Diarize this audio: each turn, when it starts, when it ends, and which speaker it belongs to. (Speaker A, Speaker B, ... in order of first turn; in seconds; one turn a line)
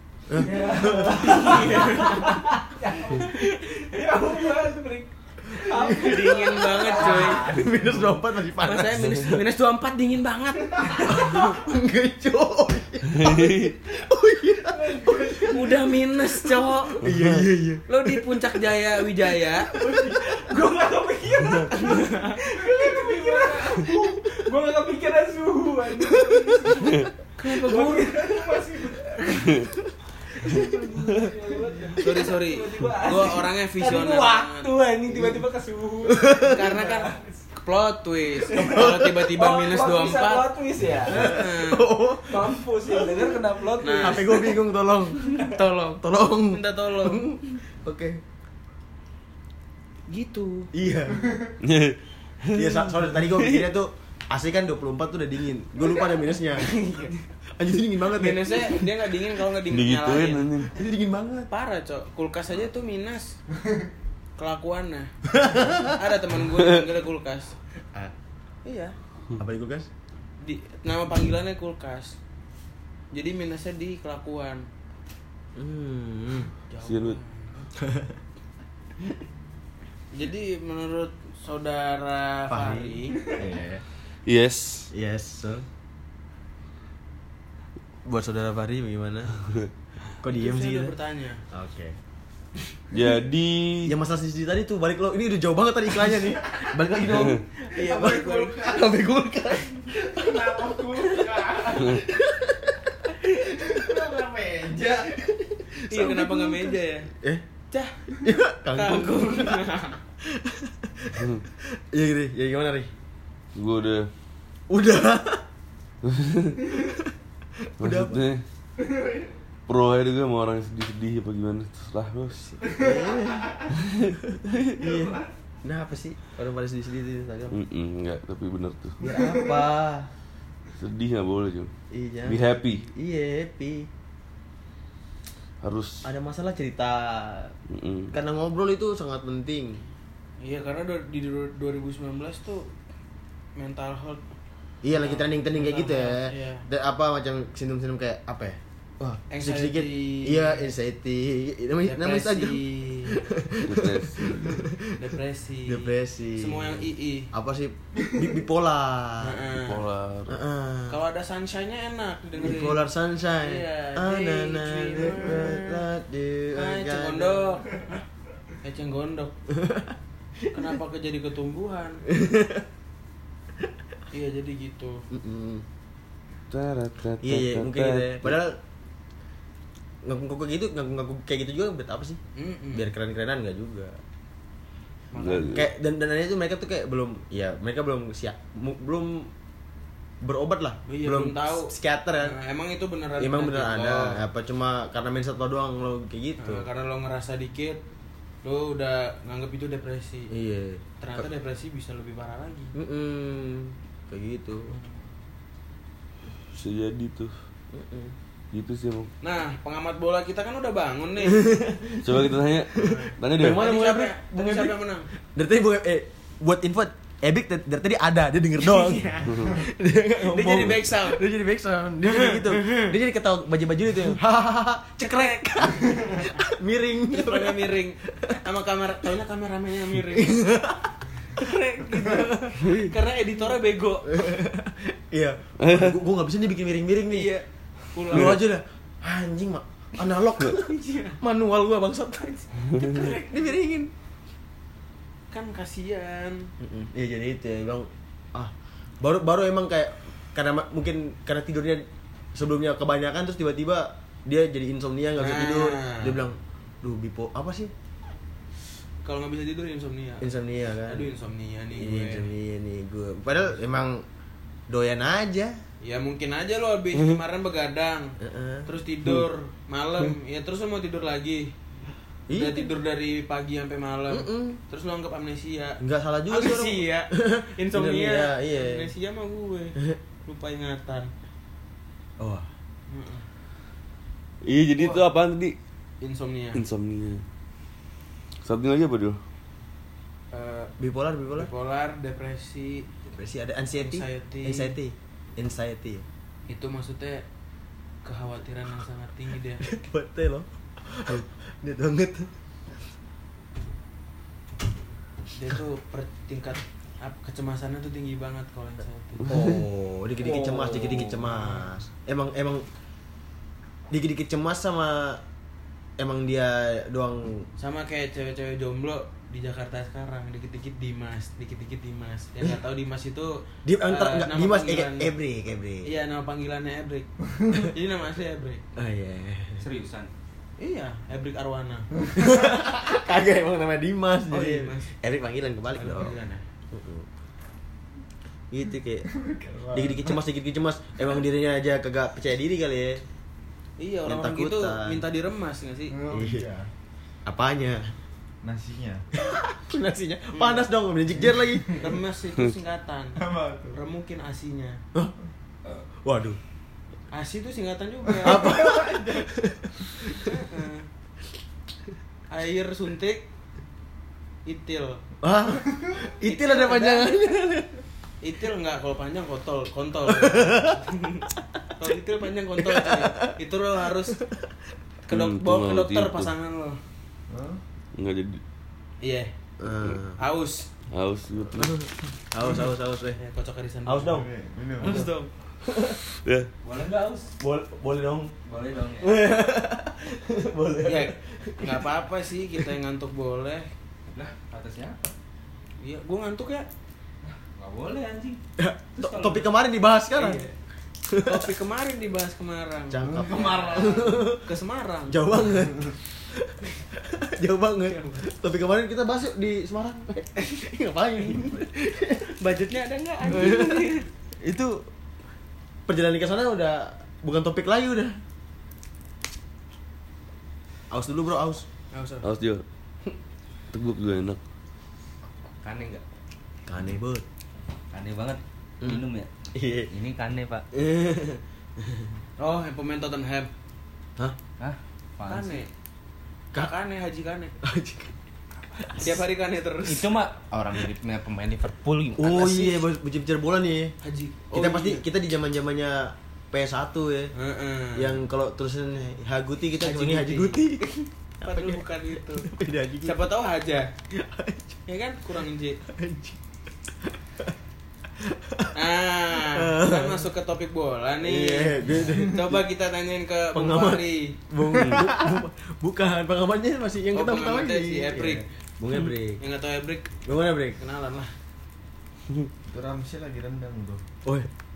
Speaker A: 0.3-1.9
Speaker B: 0.4-8.2
Speaker C: 1.0-2.4
Speaker A: 5.7-9.4
Speaker C: 5.7-7.6
Speaker C: 8.6-11.6
Speaker B: 10.8-11.3
Speaker A: 11.1-15.6
Speaker D: 13.1-13.8
Speaker B: 14.7-15.7
Speaker C: 15.4-17.0
Speaker A: 17.0-17.9
Speaker D: 17.0-17.5
Speaker C: 17.9-19.7
Speaker B: 19.7-29.6
Speaker C: 21.7-22.4
Speaker A: 26.0-26.9
Speaker D: 26.8-27.1
Speaker C: 27.4-28.3
Speaker D: 29.4-29.7
Speaker B: 30.3-37.4
Speaker C: 32.0-34.7
Speaker A: 35.1-35.4
Speaker A: 36.1-36.6
Speaker C: 36.4-40.5
Speaker B: 38.4-41.3
Speaker A: 38.6-39.1
Speaker C: 41.0-41.9
Speaker A: 41.1-43.4
Speaker B: 42.3-44.6
Speaker C: 43.8-44.4
Speaker A: 44.0-48.2
Speaker B: 45.2-45.6
Speaker C: 45.4-47.3
Speaker C: 50.1-50.7
Speaker A: 50.7-51.4
Speaker D: 51.6-52.0
Speaker A: 52.5-56.8
Speaker C: 56.2-57.2
Speaker A: 57.6-58.9
Speaker C: 58.1-60.5
Speaker D: 59.7-60.7
Speaker A: 60.7-61.5
Speaker C: 61.5-63.4
Speaker C: 64.4-65.1
Speaker A: 65.3-66.0
Speaker C: 65.7-67.6
Speaker C: 68.7-69.0
Speaker A: 69.4-69.9
Speaker C: 70.4-72.2
Speaker C: 73.1-74.7
Speaker A: 75.6-76.5
Speaker C: 76.7-77.7
Speaker D: 76.8-77.2
Speaker A: 77.8-78.2
Speaker C: 80.1-83.2
Speaker A: 82.5-83.8
Speaker D: 84.3-84.9
Speaker A: 84.9-85.7
Speaker A: 88.1-89.3
Speaker A: 90.2-90.9
Speaker C: 90.2-91.4
Speaker A: 91.5-92.0
Speaker D: 92.9-93.9
Speaker A: 93.8-104.2
Speaker C: 97.0-98.8
Speaker D: 97.1-97.4
Speaker E: 100.0-102.0
Speaker D: 101.8-102.0
Speaker E: 103.6-105.0
Speaker A: 104.8-107.4
Speaker C: 105.9-107.1
Speaker C: 107.7-108.0
Speaker A: 108.2-109.7
Speaker C: 108.7-110.0
Speaker A: 110.2-112.9
Speaker D: 111.2-111.4
Speaker D: 113.5-114.1
Speaker A: 114.7-115.4
Speaker D: 116.0-116.7
Speaker A: 116.7-118.3
Speaker D: 117.8-118.4
Speaker D: 119.7-122.6
Speaker A: 122.6-123.7
Speaker E: 122.7-123.0
Speaker D: 123.7-124.8
Speaker A: 124.8-127.6
Speaker D: 127.5-129.0
Speaker A: 129.0-130.1
Speaker E: 129.2-129.5
Speaker D: 130.7-131.7
Speaker A: 131.9-133.9
Speaker D: 132.2-132.9
Speaker D: 135.6-136.1
Speaker A: 136.0-137.5
Speaker D: 137.7-138.1
Speaker A: 138.1-139.8
Speaker C: 140.4-142.7
Speaker C: 143.6-144.2
Speaker A: 144.8-155.0
Speaker C: 144.9-146.7
Speaker C: 149.3-150.7
Speaker C: 151.8-153.2
Speaker D: 153.6-154.7
Speaker C: 155.0-157.3
Speaker A: 155.7-159.4
Speaker C: 159.2-159.9
Speaker D: 159.7-160.4
Speaker A: 160.3-161.0
Speaker C: 160.9-162.9
Speaker A: 162.4-167.6
Speaker C: 163.4-165.8
Speaker C: 166.6-168.1
Speaker C: 168.6-169.3
Speaker A: 169.5-169.9
Speaker C: 170.5-172.0
Speaker A: 172.1-172.7
Speaker C: 174.1-175.0
Speaker A: 175.1-175.7
Speaker D: 176.5-178.4
Speaker A: 177.2-178.6
Speaker A: 180.0-182.2
Speaker C: 182.3-182.9
Speaker A: 182.7-184.0
Speaker C: 185.1-185.7
Speaker D: 185.2-185.7
Speaker A: 185.5-189.3
Speaker A: 190.2-192.4
Speaker C: 190.9-194.2
Speaker A: 193.2-196.7
Speaker C: 196.4-197.8
Speaker C: 198.4-200.3
Speaker A: 200.3-201.3
Speaker C: 201.0-202.7
Speaker A: 202.7-204.8
Speaker C: 204.7-205.0
Speaker D: 206.5-207.3
Speaker A: 207.7-208.2
Speaker D: 208.5-209.1
Speaker C: 209.2-211.5
Speaker A: 211.2-214.8
Speaker D: 212.0-213.6
Speaker C: 212.8-215.1
Speaker A: 215.3-228.4
Speaker C: 218.6-219.5
Speaker D: 219.3-219.6
Speaker C: 220.2-221.2
Speaker C: 222.1-222.9
Speaker C: 225.0-226.3
Speaker C: 227.1-230.4
Speaker A: 230.1-231.4
Speaker C: 231.3-234.2
Speaker A: 232.0-232.6
Speaker D: 232.6-232.9
Speaker A: 234.1-237.3
Speaker D: 235.6-236.0
Speaker C: 237.1-238.4
Speaker A: 238.1-243.9
Speaker D: 238.1-238.4
Speaker C: 240.5-241.2
Speaker D: 242.7-243.0
Speaker C: 242.8-243.4
Speaker C: 245.3-246.5
Speaker A: 246.6-257.7
Speaker C: 255.2-256.2
Speaker C: 259.0-260.3
Speaker A: 260.2-261.1
Speaker C: 260.9-262.3
Speaker A: 261.8-264.0
Speaker A: 264.7-265.6
Speaker C: 265.8-271.5
Speaker A: 268.2-268.7
Speaker A: 272.3-272.7
Speaker C: 272.3-281.1
Speaker A: 274.1-274.6
Speaker A: 275.8-278.9
Speaker A: 282.2-282.5
Speaker C: 282.9-283.3
Speaker D: 284.4-285.6
Speaker C: 284.8-285.1
Speaker C: 286.0-286.6
Speaker D: 286.6-287.2
Speaker D: 288.4-289.2
Speaker C: 290.3-290.7
Speaker A: 290.8-291.5
Speaker C: 291.3-292.9
Speaker A: 293.1-296.1
Speaker C: 293.7-294.8
Speaker C: 296.5-297.2
Speaker C: 298.0-299.7
Speaker A: 299.6-302.3
Speaker C: 305.4-309.5
Speaker A: 309.3-312.7
Speaker C: 310.2-311.4
Speaker A: 313.9-315.2
Speaker A: 316.0-317.5
Speaker C: 317.6-325.1
Speaker A: 323.6-325.9
Speaker C: 325.9-328.6
Speaker A: 328.8-329.6
Speaker B: 329.6-330.1
Speaker C: 330.6-331.9
Speaker A: 332.1-336.2
Speaker C: 334.3-334.9
Speaker C: 335.8-336.4
Speaker A: 336.7-337.1
Speaker A: 338.5-339.1
Speaker E: 339.1-340.1
Speaker A: 339.7-343.0
Speaker C: 343.8-346.0
Speaker A: 344.1-345.0
Speaker E: 345.9-346.7
Speaker A: 346.1-346.5
Speaker A: 347.3-347.8
Speaker E: 348.4-349.1
Speaker A: 349.2-351.9
Speaker C: 350.3-350.7
Speaker C: 351.8-354.8
Speaker E: 353.2-353.8
Speaker A: 356.0-356.4
Speaker C: 357.1-359.0
Speaker A: 358.2-360.3
Speaker E: 358.2-359.2
Speaker C: 360.0-360.9
Speaker C: 362.3-363.3
Speaker C: 364.5-365.0
Speaker A: 365.2-367.8
Speaker C: 366.2-367.4
Speaker C: 368.2-374.2
Speaker A: 370.1-370.8
Speaker A: 372.6-373.4
Speaker A: 373.9-374.5
Speaker C: 375.1-376.8
Speaker D: 375.1-376.3
Speaker E: 377.3-377.6
Speaker D: 378.0-378.4
Speaker C: 379.0-379.3
Speaker A: 379.6-380.2
Speaker C: 380.2-380.7
Speaker D: 380.9-381.8
Speaker A: 381.6-383.2
Speaker C: 383.1-384.1
Speaker A: 383.9-384.3
Speaker E: 384.0-385.1
Speaker C: 384.8-385.3
Speaker A: 384.8-385.1
Speaker A: 385.6-386.0
Speaker D: 386.1-386.5
Speaker B: 386.6-387.4
Speaker A: 387.4-388.3
Speaker B: 388.5-389.2
Speaker A: 389.0-391.9
Speaker C: 390.9-393.7
Speaker B: 394.1-395.1
Speaker C: 395.8-396.7
Speaker B: 397.2-398.4
Speaker A: 398.6-400.4
Speaker B: 399.0-399.5
Speaker C: 400.1-400.5
Speaker A: 401.1-401.5
Speaker C: 401.2-405.3
Speaker A: 402.9-404.5
Speaker E: 403.2-403.5
Speaker A: 405.1-412.3
Speaker C: 407.9-408.2
Speaker C: 412.2-414.1
Speaker A: 413.3-414.8
Speaker A: 415.9-418.2
Speaker A: 420.9-421.7
Speaker C: 421.9-422.3
Speaker D: 422.2-422.6
Speaker D: 423.7-424.4
Speaker B: 425.6-426.0
Speaker A: 426.7-427.2
Speaker B: 427.9-429.3
Speaker A: 428.8-429.9
Speaker B: 429.9-430.6
Speaker A: 430.7-432.2
Speaker C: 432.4-433.5
Speaker B: 434.6-435.6
Speaker C: 435.3-435.7
Speaker C: 436.5-437.5
Speaker A: 437.6-438.1
Speaker A: 438.8-439.2
Speaker C: 438.9-440.1
Speaker B: 439.9-442.7
Speaker A: 442.2-443.9
Speaker C: 444.0-445.1
Speaker A: 444.5-447.3
Speaker C: 447.4-448.2
Speaker A: 447.9-450.9
Speaker C: 449.8-452.5
Speaker A: 451.4-453.2
Speaker C: 453.0-453.9
Speaker A: 454.1-454.8
Speaker C: 454.9-455.8
Speaker A: 455.9-457.5
Speaker A: 458.2-458.8
Speaker C: 458.7-464.4
Speaker A: 459.4-460.3
Speaker A: 461.2-462.6
Speaker A: 463.5-469.4
Speaker D: 464.7-465.1
Speaker C: 467.1-468.4
Speaker C: 469.4-470.2
Speaker A: 470.2-470.8
Speaker C: 470.8-471.3
Speaker E: 472.7-474.0